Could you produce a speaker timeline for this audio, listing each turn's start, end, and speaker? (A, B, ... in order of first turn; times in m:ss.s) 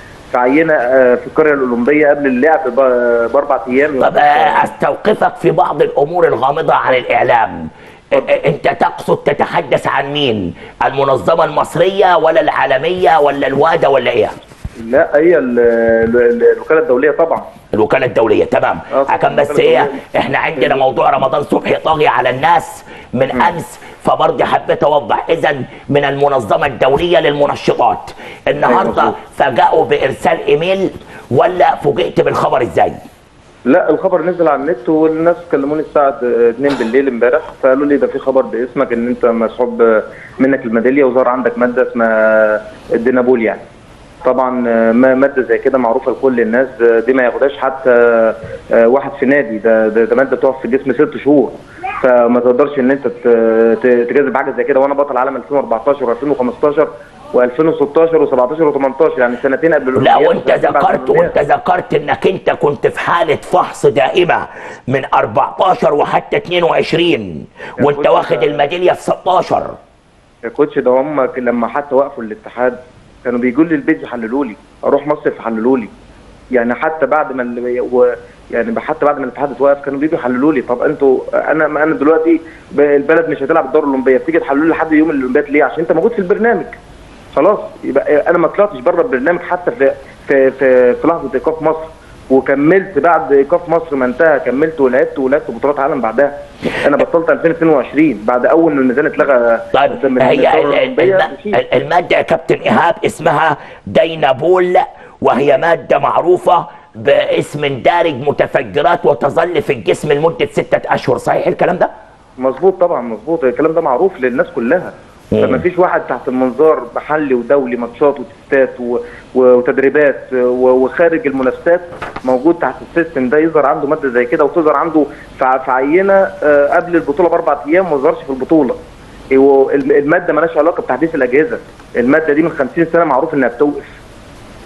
0:00.3-0:04.6 A
0:04.0-0:14.3 B
0:14.8-0:17.4 A
0:17.7-0:33.0 B
0:18.9-0:20.0 A
0:20.6-0:21.0 A
0:28.6-0:29.2 A
0:33.7-0:43.6 A
0:44.2-1:01.3 A
1:00.0-1:09.8 B
1:07.8-1:08.7 A
1:10.4-1:15.9 A
1:16.6-1:26.8 A
1:27.3-1:41.6 A
1:39.7-1:51.9 B
1:52.4-2:08.8 A
1:55.3-1:55.6 B
2:09.3-2:13.9 A